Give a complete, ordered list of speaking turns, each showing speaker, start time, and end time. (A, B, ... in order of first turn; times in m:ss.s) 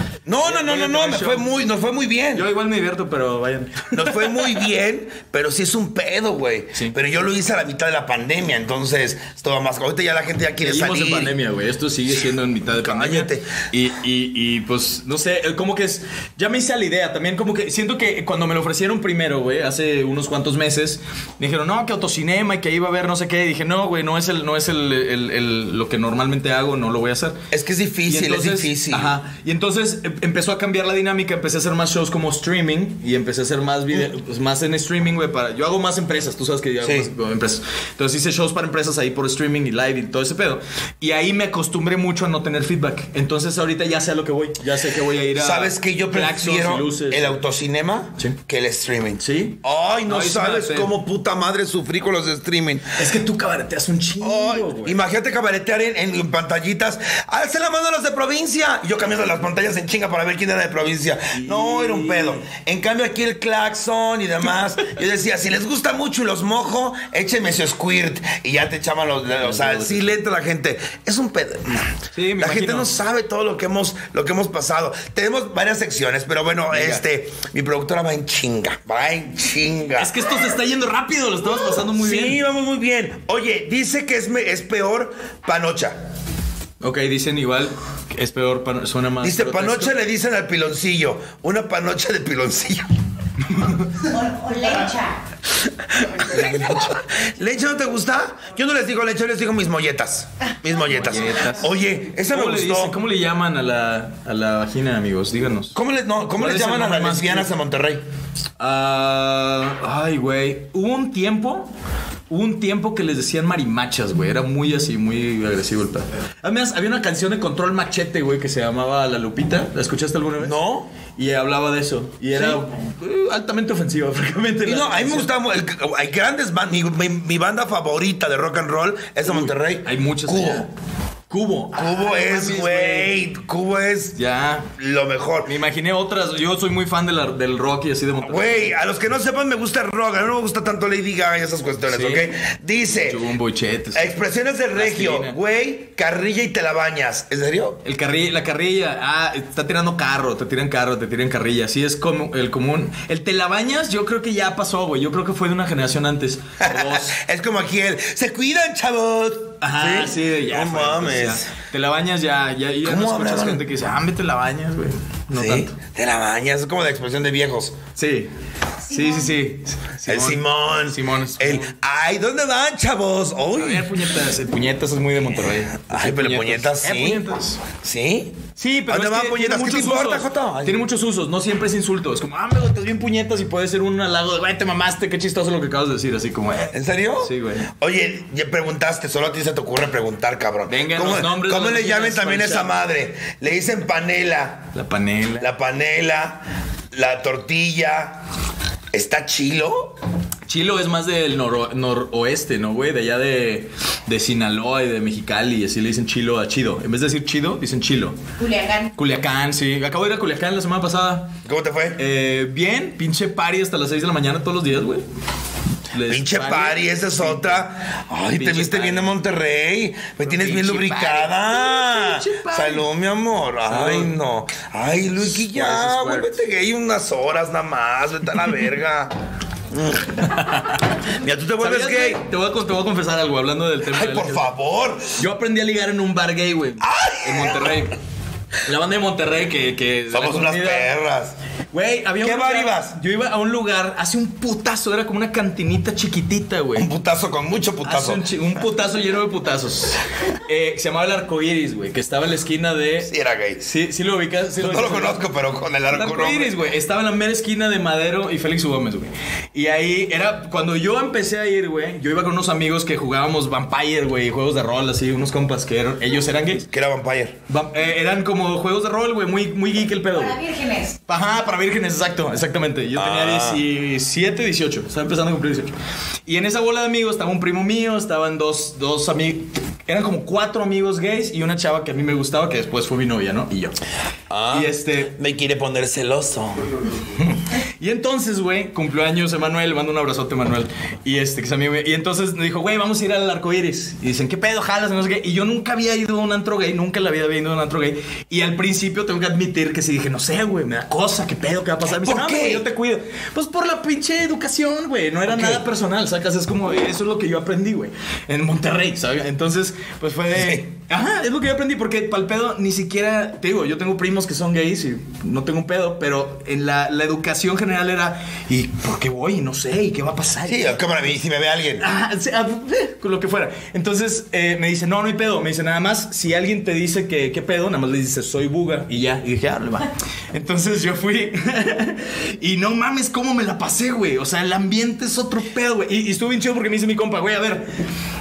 0:00.2-0:02.5 A
0:00.4-0:01.5 B
0:02.3-0:04.7 B
0:03.9-0:11.3 A
0:10.6-0:27.4 B
0:12.8-0:13.5 A
0:27.5-0:29.1 A
0:28.1-0:47.4 B
0:36.8-0:37.1 A
0:45.4-0:52.9 A
0:49.2-0:50.9 B
0:53.0-0:55.0 B
0:54.2-1:20.2 A
1:01.3-1:02.4 B
1:09.4-1:10.2 B
1:12.1-1:13.0 B
1:16.7-1:17.0 B
1:20.0-1:22.4 B
1:21.6-1:26.0 A
1:26.8-1:29.9 B
1:29.2-1:32.9 A
1:33.5-1:33.8 B
1:34.0-1:35.2 C
1:36.0-1:43.0 A
1:40.9-1:41.7 B
1:42.3-1:45.8 B
1:45.7-1:48.0 A
1:46.3-1:47.5 B
1:48.6-1:51.7 B
1:52.3-2:00.6 B
2:00.4-2:00.9 A
2:01.1-2:05.3 B
2:02.3-2:02.6 A
2:04.6-2:10.7 A
2:09.2-2:10.7 B
2:11.3-2:13.1 B
2:11.7-2:14.2 A
2:14.2-2:14.7 B
2:14.8-2:15.5 A
2:15.4-2:18.8 B
2:18.2-2:23.2 A
2:21.9-2:22.3 B
2:22.8-2:24.2 B
2:23.9-2:27.8 A
2:24.7-2:25.4 B
2:27.8-2:37.2 B
2:36.6-2:41.5 A
2:39.6-2:45.8 B
2:42.8-2:43.6 A
2:45.3-2:47.8 A
2:48.0-2:48.3 B
2:48.8-2:51.7 B
2:50.1-2:54.0 A
2:53.5-2:57.6 B
2:55.7-2:57.2 A
2:57.8-3:00.8 A
2:58.6-3:07.7 B
3:06.7-3:14.7 A
3:10.7-3:12.7 B
3:14.7-3:15.5 B
3:15.4-3:18.2 A
3:18.9-3:20.0 A
3:20.5-3:28.2 B
3:28.4-3:28.9 C
3:28.9-3:31.4 B
3:31.4-3:32.0 A
3:32.0-3:35.0 B
3:35.9-3:37.6 B
3:36.1-3:49.1 A
3:38.3-3:39.1 B
3:40.2-3:42.9 B
3:43.6-3:44.1 B
3:45.2-3:46.4 B
3:49.7-3:50.3 A
3:50.2-3:50.8 B
3:51.0-3:52.2 A
3:51.6-3:54.5 B
3:53.9-3:55.2 A
3:55.2-3:58.0 B
3:56.8-3:57.9 A
3:58.6-4:00.9 B
4:00.1-4:01.4 A
4:01.7-4:06.9 B
4:02.2-4:03.0 A
4:06.8-4:08.2 A
4:07.8-4:15.2 B
4:13.0-4:13.6 A
4:14.6-4:16.5 A
4:15.9-4:26.7 B
4:26.7-4:27.4 A
4:27.5-4:30.5 B
4:30.4-4:30.9 C
4:31.1-4:35.7 B
4:33.0-4:33.6 A
4:36.2-4:43.8 B
4:44.3-4:46.9 A
4:44.5-4:45.1 B
4:47.1-5:20.8 B
5:01.9-5:02.6 A
5:05.3-5:05.6 A
5:10.3-5:10.6 A
5:20.5-5:21.8 A
5:21.8-5:37.7 B